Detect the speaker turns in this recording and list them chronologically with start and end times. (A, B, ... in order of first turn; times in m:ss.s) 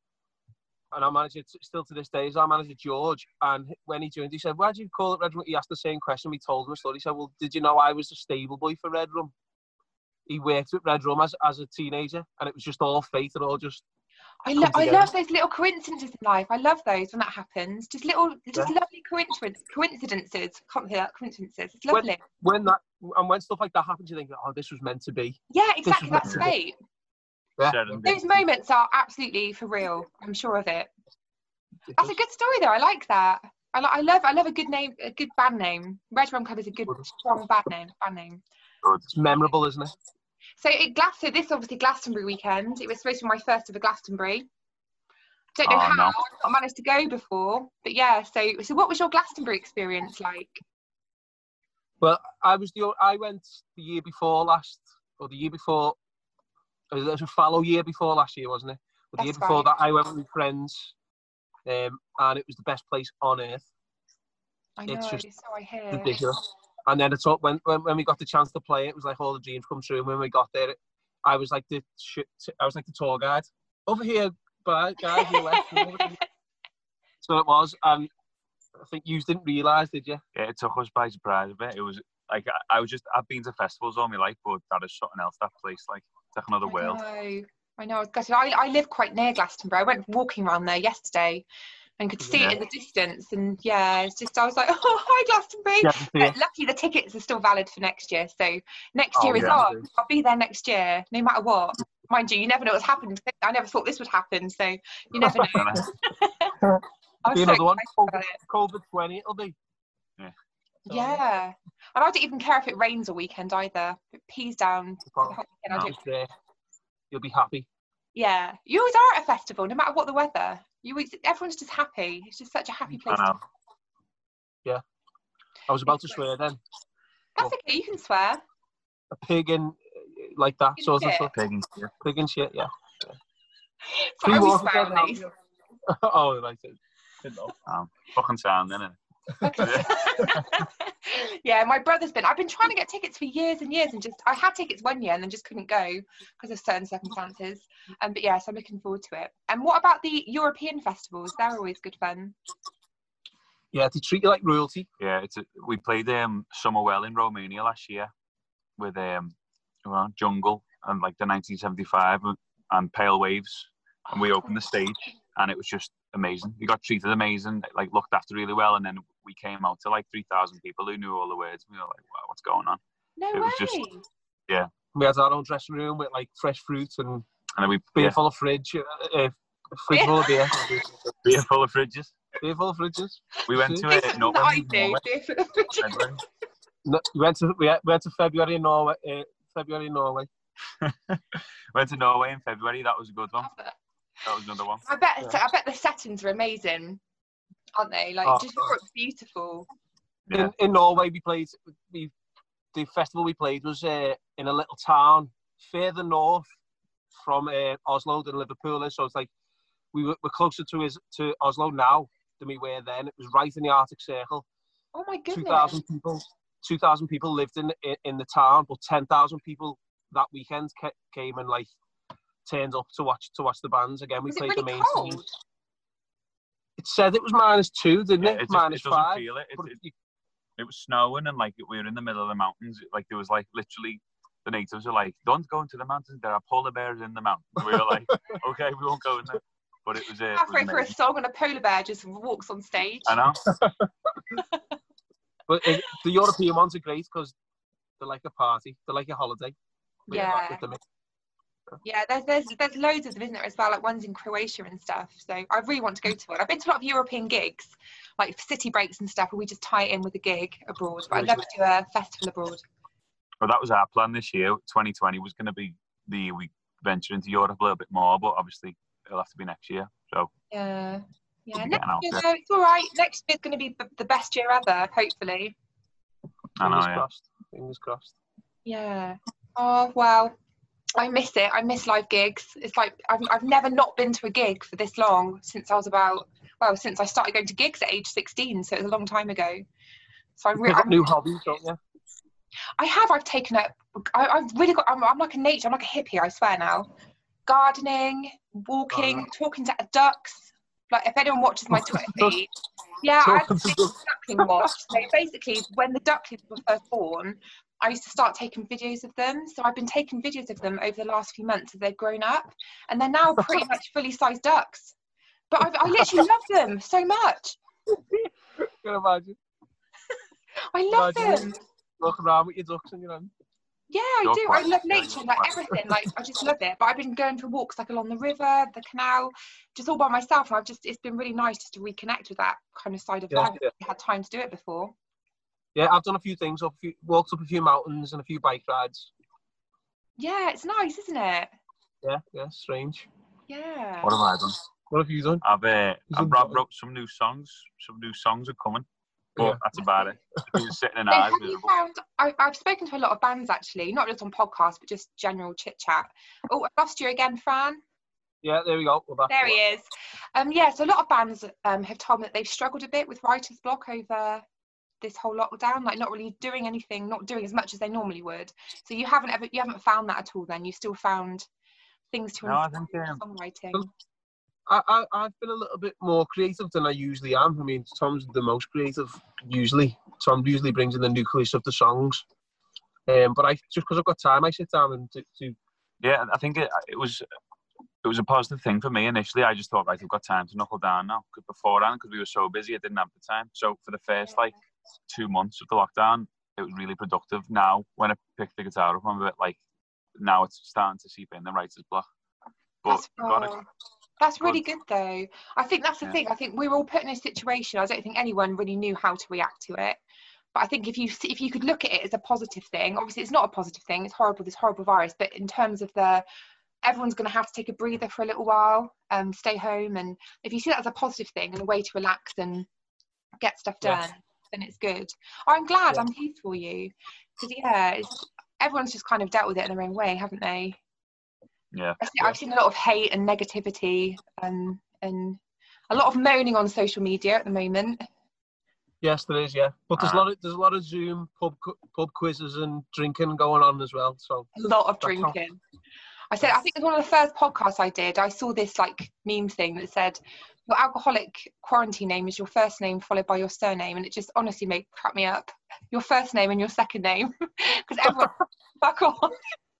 0:00.9-0:09.3 A
0:10.3-0:13.8 A
0:14.4-0:22.2 B
0:14.6-0:15.1 A
0:21.9-0:26.5 A
0:25.5-0:26.8 B
0:27.6-0:28.0 A
0:27.6-0:28.4 C
0:28.0-0:30.9 B
0:31.9-0:32.2 A
0:32.0-0:38.4 B
0:38.8-0:39.1 C
0:39.1-0:39.9 A
0:40.6-0:44.5 B
0:45.6-0:50.6 B
0:45.6-0:46.2 C
0:52.0-0:56.0 A
0:56.9-1:00.9 A
0:59.2-0:59.7 B
1:01.6-1:03.7 A
1:04.8-1:06.2 B
1:04.9-1:05.2 A
1:05.9-1:16.2 A
1:15.1-1:16.2 B
1:17.2-1:18.1 A
1:18.8-1:20.2 A
1:20.3-1:27.0 C
1:26.6-1:31.4 B
1:32.0-1:46.6 B
1:32.2-1:32.5 A
1:35.8-1:36.4 A
1:39.1-1:39.8 A
1:39.3-1:39.6 C
1:45.1-1:45.8 A
1:45.5-1:45.9 C
1:46.6-1:49.6 A
1:47.2-1:48.4 B
1:50.9-1:51.2 A
1:50.9-1:56.0 B
1:55.1-1:56.3 A
1:57.1-1:57.7 A
1:58.1-2:03.3 B
2:03.0-2:03.4 C
2:05.7-2:06.6 A
2:05.8-2:06.2 B
2:07.4-2:08.4 B
2:09.1-2:11.3 A
2:10.8-2:11.3 B
2:11.3-2:11.9 C
2:12.0-2:13.2 A
2:13.9-2:15.3 B
2:14.2-2:15.3 A
2:15.9-2:17.5 A
2:17.5-2:19.0 C
2:19.4-2:32.3 B
2:19.5-2:20.5 C
2:33.7-2:34.9 A
2:35.0-2:38.1 C
2:38.8-2:39.3 C
2:39.8-2:52.8 C
2:53.2-2:54.0 B
2:53.3-2:53.8 C
2:54.9-2:57.2 A
2:57.6-2:58.2 C
2:57.9-3:01.1 A
2:59.9-3:00.5 B
3:01.2-3:02.2 C
3:02.4-3:03.8 A
3:03.5-3:05.0 C
3:03.8-3:06.1 B
3:05.8-3:06.2 C
3:06.8-3:10.3 A
3:10.8-3:13.5 C
3:13.4-3:13.8 B
3:14.2-3:14.8 C
3:14.8-3:17.0 B
3:17.8-3:19.7 B
3:18.2-3:18.7 A
3:20.3-3:20.5 C
3:20.3-3:22.1 A
3:22.7-3:26.4 A
3:27.1-3:29.3 A
3:29.9-3:34.4 A
3:34.9-3:35.8 B
3:35.3-3:41.7 A
3:42.4-3:45.2 A
3:44.3-3:45.3 B
3:46.8-3:49.9 A
3:48.2-3:49.8 C
3:50.6-4:00.9 C
3:57.6-3:58.4 A
4:00.3-4:03.2 B
4:03.0-4:03.4 C
4:03.4-4:04.4 A
4:04.4-4:04.6 B
4:05.5-4:07.3 A
4:08.0-4:09.6 A
4:10.1-4:10.6 B
4:10.1-4:10.8 A
4:11.8-4:22.6 B
4:23.4-4:30.3 C
4:30.5-4:35.5 B
4:31.6-4:32.2 C
4:36.6-4:37.0 C
4:36.6-4:38.1 A
4:38.6-4:40.3 B
4:41.0-4:49.6 B
4:50.4-4:51.1 B
4:50.6-4:51.8 A
4:52.8-4:56.9 B
4:57.4-5:14.9 B
4:58.9-4:59.3 A
5:01.7-5:02.4 A
5:03.2-5:04.7 A
5:15.5-5:17.6 B
5:15.8-5:16.2 A
5:17.9-5:19.4 A
5:20.7-5:21.6 B
5:20.9-5:23.3 A
5:23.9-5:34.9 B
5:24.2-5:25.6 C
5:33.3-5:33.7 A
5:35.7-5:39.1 A
5:40.2-5:41.5 B
5:42.0-5:43.1 A
5:43.5-5:44.1 B
5:44.0-5:44.6 C
5:44.9-5:45.4 A
5:45.4-5:48.8 C
5:46.1-5:46.6 A
5:49.4-5:49.6 A
5:49.4-5:51.7 C
5:51.1-5:57.8 B
5:58.4-5:59.6 A
5:59.3-6:04.4 B
6:05.0-6:11.5 B
6:12.1-6:13.9 B
6:12.4-6:13.2 C
6:14.7-6:22.2 A
6:23.1-6:25.6 A
6:26.0-6:27.2 C
6:28.0-6:34.5 C
6:35.1-6:39.6 C
6:40.2-6:42.1 C
6:42.8-6:43.5 C
6:42.8-6:43.7 B
6:44.2-6:50.0 B
6:50.5-6:56.2 B
6:56.8-7:02.7 B
7:03.4-7:10.8 B
7:11.7-7:12.3 C
7:12.0-7:18.0 B
7:19.0-7:24.5 A
7:20.0-7:20.2 C
7:24.5-7:25.6 B
7:25.0-7:25.4 A
7:26.3-7:39.4 B